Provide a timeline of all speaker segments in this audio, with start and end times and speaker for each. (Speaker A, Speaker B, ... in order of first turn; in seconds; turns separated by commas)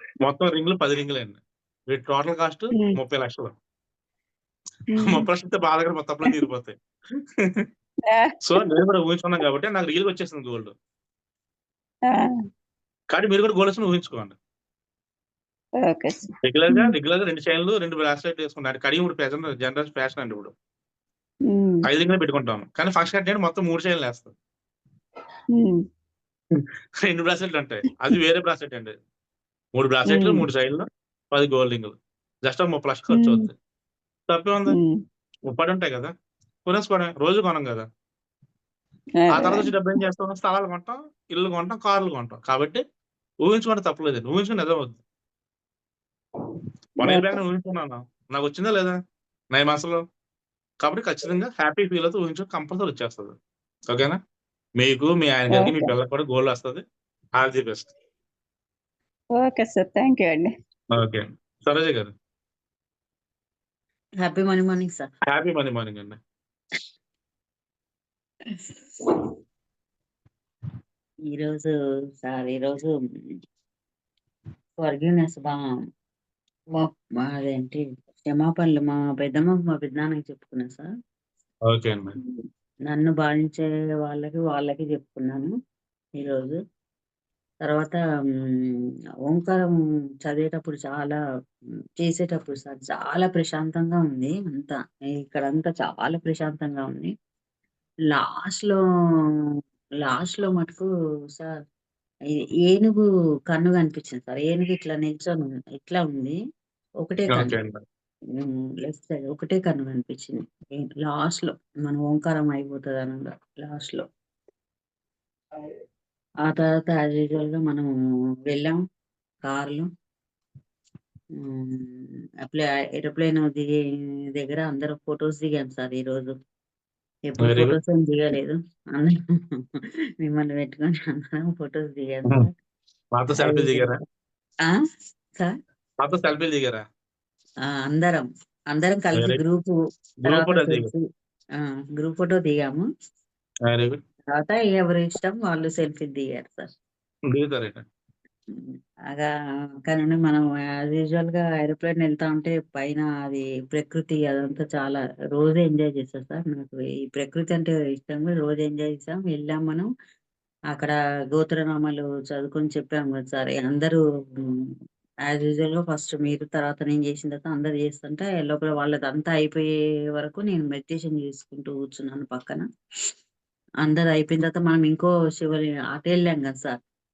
Speaker A: 0.2-3.5, Speaker B: 4.9-5.2, Speaker A: 5.0-7.7, Speaker B: 8.1-8.3, Speaker A: 8.4-10.7, Speaker A: 13.1-14.3, Speaker B: 15.8-16.9, Speaker A: 16.4-20.5, Speaker B: 21.5-21.8, Speaker A: 21.8-24.3, Speaker B: 25.5-25.8, Speaker A: 26.5-28.9, Speaker A: 29.7-33.5, Speaker B: 30.1-30.4, Speaker B: 33.1-33.5, Speaker A: 34.3-34.8, Speaker B: 34.7-35.0, Speaker A: 35.5-36.1, Speaker A: 36.6-37.9, Speaker B: 39.2-39.7, Speaker A: 39.3-42.8, Speaker A: 43.4-45.0, Speaker A: 47.0-49.0, Speaker B: 47.0-47.4, Speaker A: 49.5-50.0, Speaker A: 50.8-53.4, Speaker A: 53.9-54.2, Speaker A: 54.8-56.8, Speaker B: 55.5-55.9, Speaker A: 57.4-57.9, Speaker B: 59.4-60.5, Speaker A: 60.9-62.1, Speaker C: 64.2-65.1, Speaker A: 65.3-66.2, Speaker C: 71.3-71.7, Speaker C: 72.2-72.9, Speaker C: 74.8-75.6, Speaker C: 76.7-80.9, Speaker A: 81.7-82.2, Speaker C: 82.2-85.5, Speaker C: 86.2-86.6, Speaker C: 87.6-88.0, Speaker C: 88.6-89.7, Speaker C: 90.2-91.2, Speaker C: 92.0-97.1, Speaker C: 98.1-98.8, Speaker C: 100.0-101.5, Speaker C: 102.3-106.4, Speaker C: 107.0-107.5, Speaker A: 107.3-107.8, Speaker C: 108.4-114.1, Speaker C: 116.4-117.9, Speaker C: 118.5-118.8, Speaker C: 119.5-119.9, Speaker C: 121.4-123.8, Speaker C: 124.3-126.3, Speaker C: 127.3-132.5, Speaker A: 127.4-127.8, Speaker A: 133.1-134.0, Speaker C: 133.4-134.0, Speaker A: 136.0-136.8, Speaker C: 137.8-141.0, Speaker A: 140.2-140.9, Speaker C: 142.0-142.8, Speaker A: 143.7-144.0, Speaker C: 144.3-146.7, Speaker A: 147.3-147.8, Speaker C: 148.7-149.3, Speaker C: 149.9-159.9, Speaker C: 160.7-164.0, Speaker C: 165.3-172.6, Speaker C: 173.8-176.8